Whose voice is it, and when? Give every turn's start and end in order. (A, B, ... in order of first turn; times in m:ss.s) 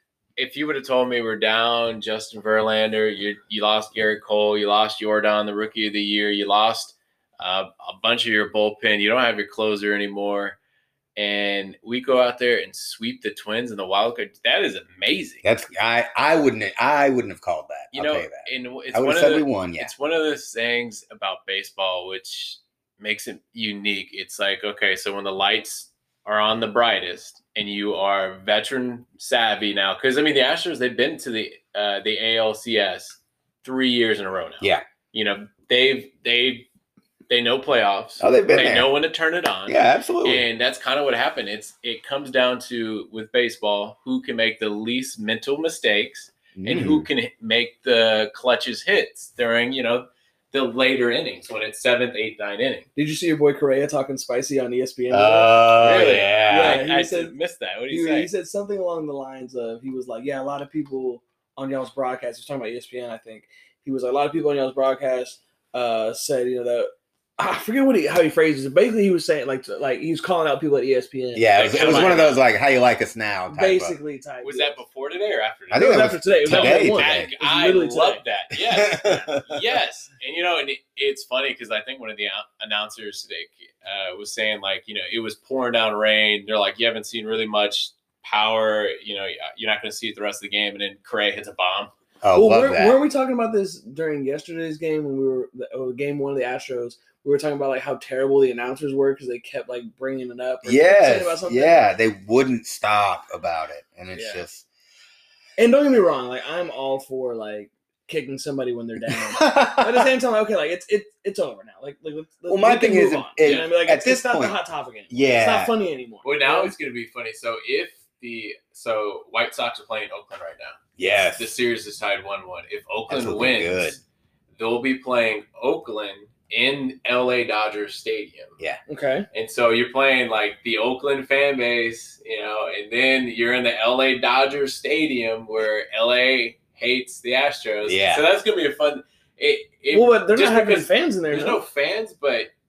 0:00.4-0:10.6 A
0:11.2-0:15.4 A
0:15.4-0:19.9 B
0:17.9-0:36.7 A
0:37.3-0:52.9 A
0:38.2-0:38.9 B
0:39.7-0:40.4 B
0:46.5-0:47.1 B
0:53.0-0:55.5 C
0:55.1-0:56.8 B
0:55.8-0:58.3 A
0:56.5-0:57.3 C
0:57.9-1:12.3 C
1:11.3-1:14.0 B
1:11.5-1:12.4 A
1:13.5-1:14.8 C
1:14.4-1:31.9 A
1:15.7-1:17.3 B
1:15.7-1:18.2 C
1:18.5-1:19.8 B
1:32.2-1:33.0 B
1:32.3-1:41.9 C
1:40.6-1:44.7 B
1:44.1-1:44.4 C
1:45.6-1:56.7 C
1:49.1-1:50.1 B
1:52.5-1:54.6 B
1:53.4-1:53.7 A
1:55.1-1:55.7 B
1:56.2-2:04.0 A
2:01.0-2:01.5 B
2:03.1-2:04.0 B
2:04.6-2:08.6 A
2:08.9-2:09.3 C
2:09.3-2:22.5 A
2:17.8-2:18.2 B
2:19.9-2:21.6 C